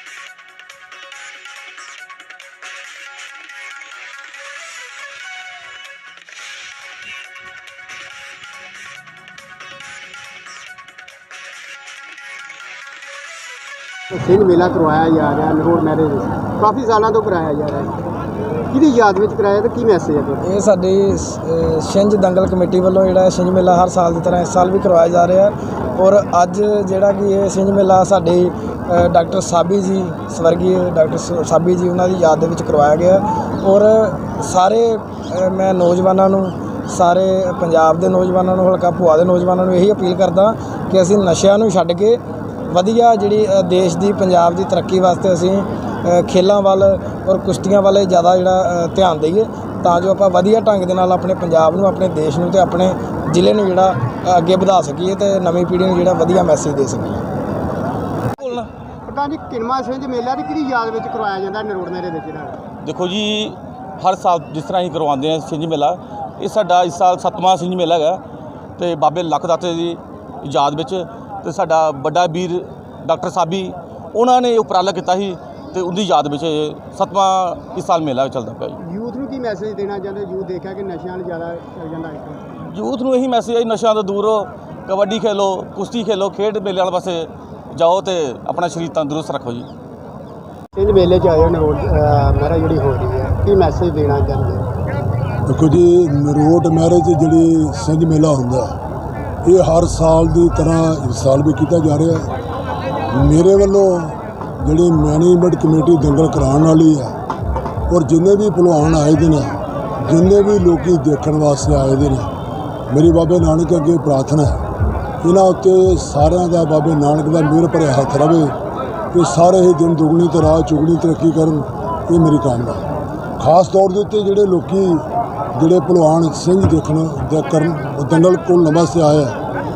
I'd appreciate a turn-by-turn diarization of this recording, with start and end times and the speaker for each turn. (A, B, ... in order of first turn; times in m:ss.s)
0:14.1-0:18.0 A
0:18.7-0:20.4 A
0:20.4-0:57.2 B
0:59.0-1:02.6 A
1:02.8-1:08.2 C
1:08.8-1:18.8 C
1:18.8-1:22.4 A
1:22.6-1:29.7 C
1:30.8-1:34.6 A
1:35.4-1:38.7 D
1:39.4-1:42.3 D
1:43.1-1:47.2 D
1:47.9-1:52.3 D
1:52.9-1:54.6 D
1:55.2-1:58.5 D
1:59.1-2:02.8 D
2:03.4-2:09.4 D